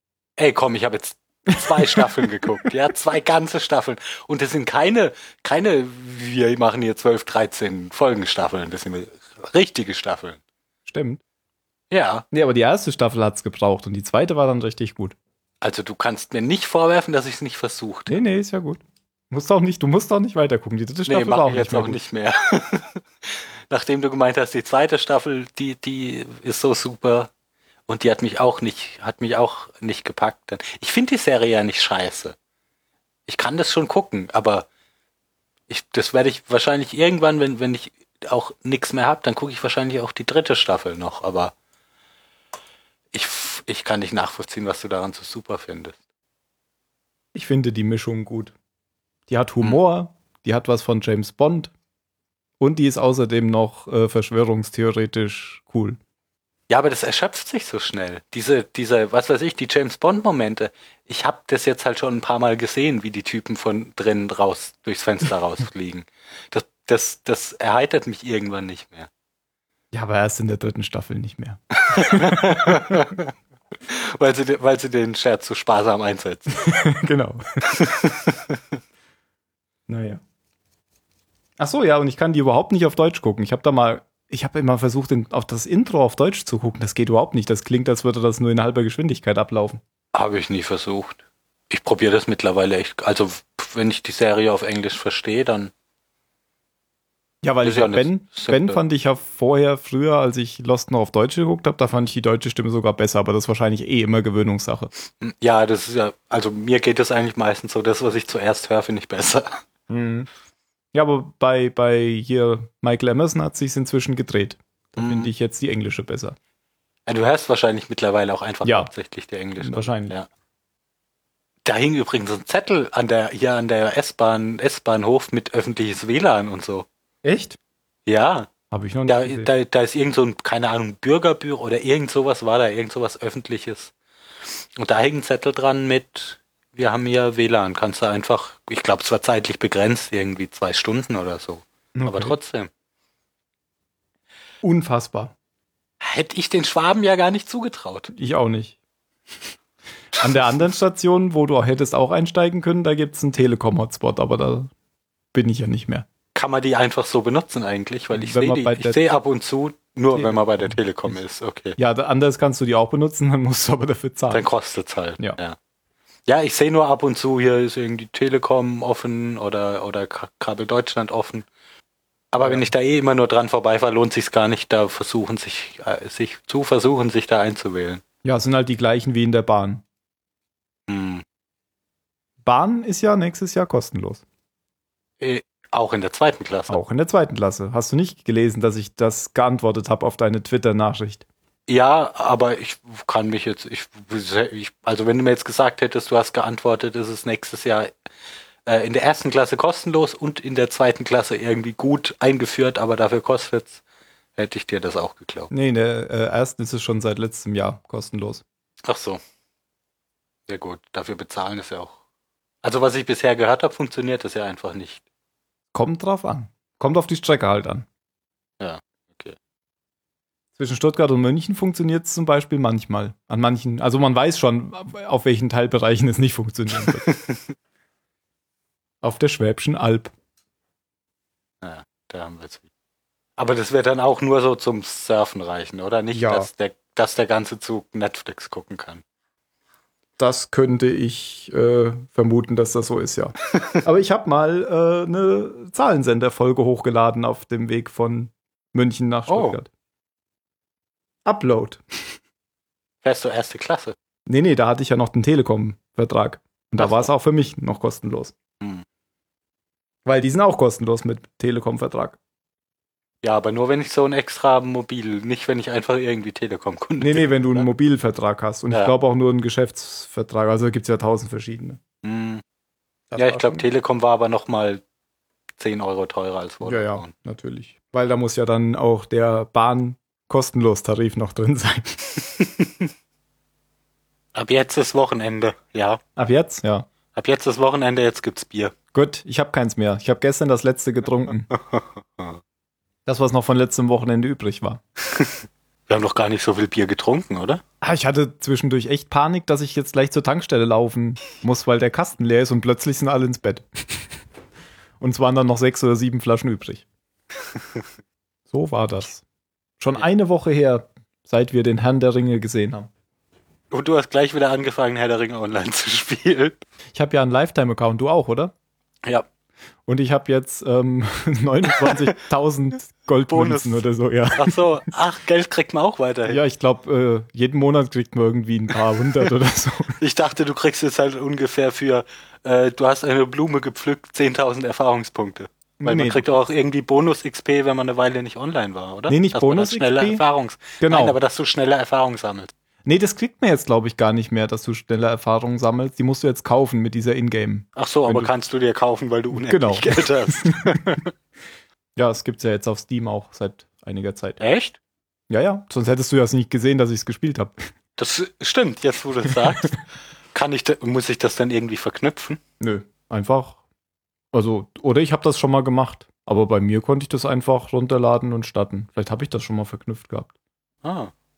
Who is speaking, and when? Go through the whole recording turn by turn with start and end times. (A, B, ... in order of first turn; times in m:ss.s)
0:00.4-0:10.4 A
0:01.5-0:02.5 B
0:10.9-0:11.2 B
0:11.9-0:12.2 A
0:12.3-0:15.1 B
0:15.6-0:18.2 A
0:18.1-0:22.0 B
0:21.1-0:27.3 A
0:27.9-0:32.4 A
0:33.3-0:34.7 A
0:35.7-0:41.5 A
0:43.1-0:46.0 A
0:47.3-0:48.5 B
0:49.3-0:51.7 B
0:52.6-0:56.0 B
0:56.7-1:09.1 A
1:09.9-1:13.0 B
1:11.8-1:13.3 A
1:13.9-1:16.6 A
1:16.5-1:17.4 B
1:17.7-1:18.6 A
1:19.9-1:20.2 B
1:21.6-1:29.8 B
1:30.1-1:31.2 A
1:31.7-1:35.7 A
1:37.4-1:44.9 B
1:37.6-1:38.8 A
1:45.2-1:49.6 A
1:49.9-1:50.3 B
1:50.9-1:56.4 B
1:55.0-1:55.3 A
1:57.1-2:00.3 A
1:58.6-1:58.9 B
1:59.6-2:00.1 B
2:01.6-2:06.9 A
2:07.2-2:07.6 B
2:08.0-2:08.5 A
2:08.7-2:09.5 B
2:09.0-2:13.9 A
2:14.8-2:22.7 A
2:21.9-2:22.4 B
2:24.6-2:25.3 B
2:26.0-2:28.1 A
2:28.1-2:28.8 B
2:30.1-2:34.7 B
2:35.3-2:36.0 B
2:36.3-2:41.8 A
2:38.1-2:39.0 B
2:40.1-2:41.2 B
2:41.8-2:44.5 B
2:44.3-2:45.6 A
2:46.3-2:51.4 A
2:52.3-2:58.0 A
2:52.4-2:52.7 B
2:58.2-2:59.8 B
3:00.9-3:01.2 A
3:02.4-3:04.2 B
3:05.2-3:06.8 A
3:06.7-3:11.2 B
3:11.7-3:17.9 A
3:18.6-3:23.8 A
3:24.4-3:25.5 A
3:25.5-3:28.4 B
3:28.8-3:29.2 A
3:30.5-3:32.0 A
3:32.6-3:35.0 A
3:35.7-3:37.8 B
3:38.6-3:39.4 A
3:40.6-3:47.0 B
3:46.9-3:47.5 A
3:49.0-3:50.1 B
3:51.6-3:52.6 A
3:53.4-3:59.0 A
3:56.1-3:56.5 B
4:00.2-4:09.7 B
4:09.3-4:09.6 A
4:11.2-4:12.1 B
4:13.0-4:13.9 A
4:14.3-4:18.3 B
4:16.8-4:17.1 A
4:20.0-4:22.2 B
4:23.2-4:27.7 A
4:27.0-4:31.8 B
4:32.0-4:32.4 A
4:33.1-4:33.6 B
4:33.2-4:34.8 A
4:35.6-4:37.1 A
4:36.6-4:42.0 B
4:42.2-4:42.9 A
4:44.3-4:46.0 A
4:46.2-4:46.9 B
4:47.1-4:48.7 A
4:48.9-4:51.5 B
4:51.6-4:52.4 A
4:53.0-4:54.8 B
4:55.1-4:57.6 A
4:57.8-5:04.1 B
5:05.0-5:06.8 B
5:07.5-5:07.8 A
5:08.5-5:09.2 B
5:09.8-5:12.9 B
5:13.7-5:16.6 A
5:16.9-5:18.5 B
5:19.9-5:24.6 B
5:23.3-5:23.8 A
5:24.4-5:26.4 A
5:26.2-5:30.0 B
5:30.0-5:42.5 A
5:35.8-5:36.2 B
5:39.1-5:40.2 B
5:40.8-5:41.2 B
5:42.8-5:48.3 B
5:47.8-5:51.1 A
5:49.3-5:50.5 B
5:52.0-5:54.4 B
5:54.4-5:54.8 A
5:55.3-5:57.6 B
5:58.0-6:02.4 A
6:02.6-6:03.6 B
6:04.3-6:10.3 B
6:10.8-6:11.1 A